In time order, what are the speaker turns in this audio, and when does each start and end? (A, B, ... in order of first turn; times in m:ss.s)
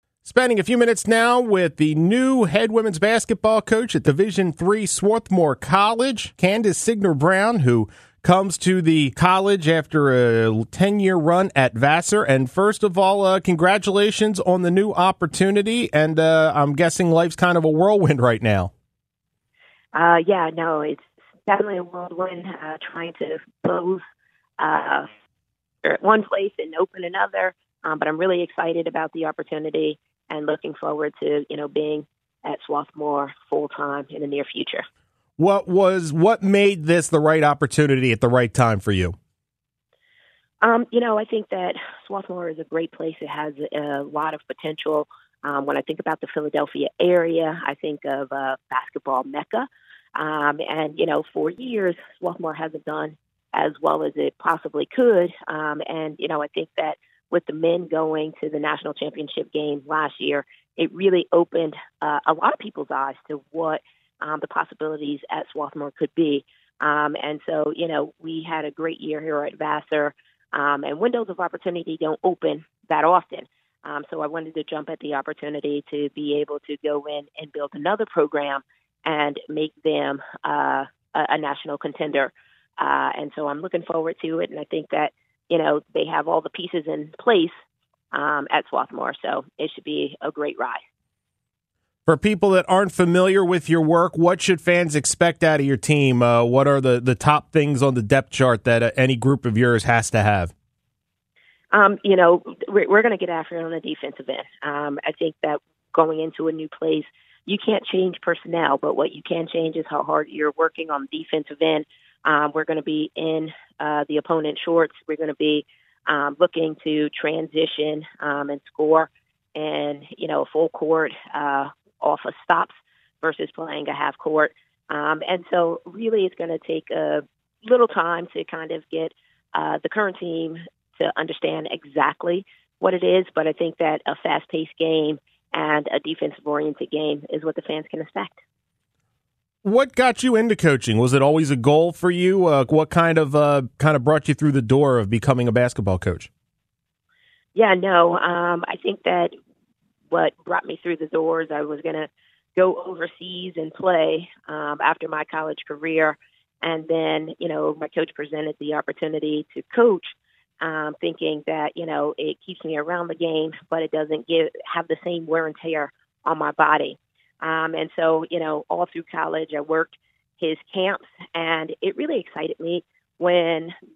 0:00.2-0:18.7 A
0:19.9-0:24.0 B
0:24.6-0:25.1 B
0:25.8-0:34.8 B
0:35.4-0:39.2 A
0:40.6-1:27.5 B
1:28.1-1:30.8 B
1:32.1-1:40.5 A
1:41.7-2:18.4 B
2:19.6-2:26.3 A
2:27.5-2:29.3 B
2:30.1-2:53.7 B